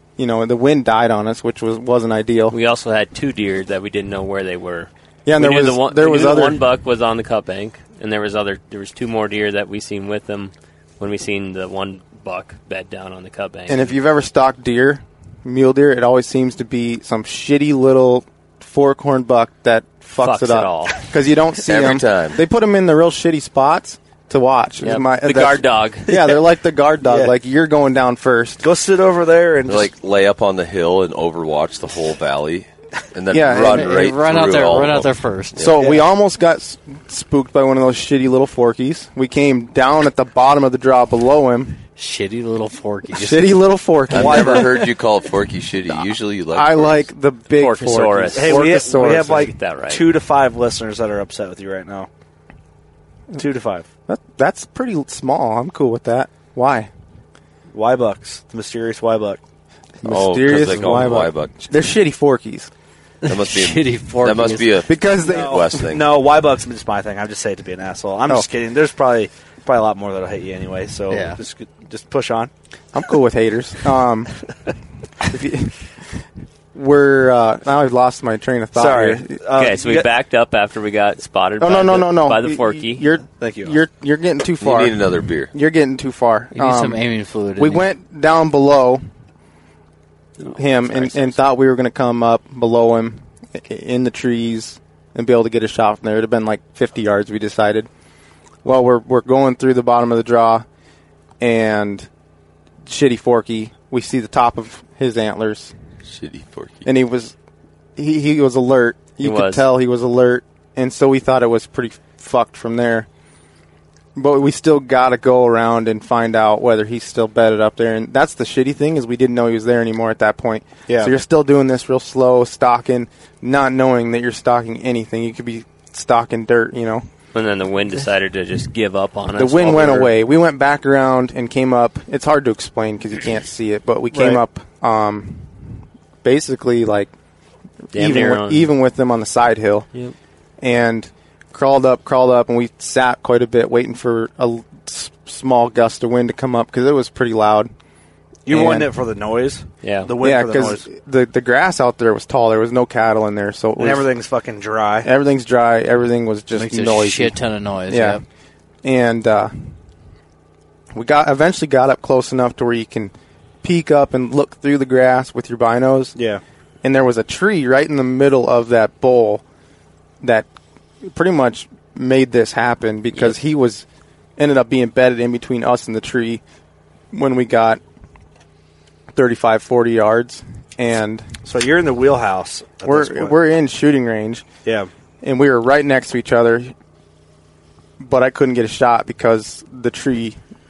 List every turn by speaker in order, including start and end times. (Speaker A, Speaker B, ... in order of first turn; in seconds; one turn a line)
Speaker A: 0.2-2.5
Speaker B: 2.5-13.9
Speaker A: 5.3-6.6
Speaker A: 13.7-28.6
Speaker B: 20.2-21.0
Speaker C: 21.7-22.4
Speaker B: 24.8-26.1
Speaker D: 27.0-27.3
Speaker D: 28.6-29.9
Speaker C: 29.7-35.7
Speaker A: 33.3-33.9
Speaker E: 33.7-36.0
Speaker A: 35.6-41.8
Speaker E: 42.0-43.6
Speaker A: 43.1-44.7
Speaker C: 44.1-47.0
Speaker D: 44.1-44.7
Speaker A: 46.5-49.5
Speaker B: 47.5-50.1
Speaker D: 48.3-52.1
Speaker D: 53.4-53.9
Speaker A: 54.1-56.9
Speaker D: 57.7-59.4
Speaker A: 60.0-62.7
Speaker C: 60.0-61.6
Speaker E: 63.2-64.8
Speaker C: 63.3-66.0
Speaker A: 64.9-65.6
Speaker D: 65.2-72.5
Speaker E: 71.1-71.4
Speaker A: 72.9-74.3
Speaker A: 75.3-75.8
Speaker A: 76.7-79.4
Speaker D: 78.8-80.1
Speaker B: 79.6-83.1
Speaker A: 81.6-87.0
Speaker D: 83.4-83.8
Speaker C: 84.6-85.5
Speaker E: 86.5-87.8
Speaker A: 87.6-89.0
Speaker B: 90.4-91.3
Speaker A: 90.5-97.9
Speaker A: 98.6-100.7
Speaker A: 101.4-102.1
Speaker A: 102.9-105.7
Speaker C: 106.1-106.9
Speaker A: 106.8-107.3
Speaker A: 108.0-113.1
Speaker B: 109.2-109.7
Speaker A: 114.2-127.0
Speaker D: 120.9-121.1
Speaker B: 127.3-130.1
Speaker A: 129.3-135.5
Speaker D: 134.1-134.4
Speaker A: 136.2-137.1
Speaker B: 137.9-138.7
Speaker A: 137.9-139.9
Speaker A: 140.6-147.7
Speaker D: 148.5-150.8
Speaker A: 148.5-148.9
Speaker B: 149.8-150.1
Speaker A: 150.2-154.1
Speaker D: 153.8-155.1
Speaker A: 155.0-158.2
Speaker E: 156.5-158.2
Speaker A: 158.8-159.5
Speaker A: 160.9-166.2
Speaker D: 166.2-166.4
Speaker A: 166.8-169.4
Speaker A: 170.2-170.5
Speaker A: 171.0-173.8
Speaker A: 174.4-176.4
Speaker A: 177.1-177.8
Speaker A: 179.1-181.2
Speaker D: 181.4-183.4
Speaker A: 182.8-184.5
Speaker A: 185.2-186.7
Speaker A: 188.0-190.4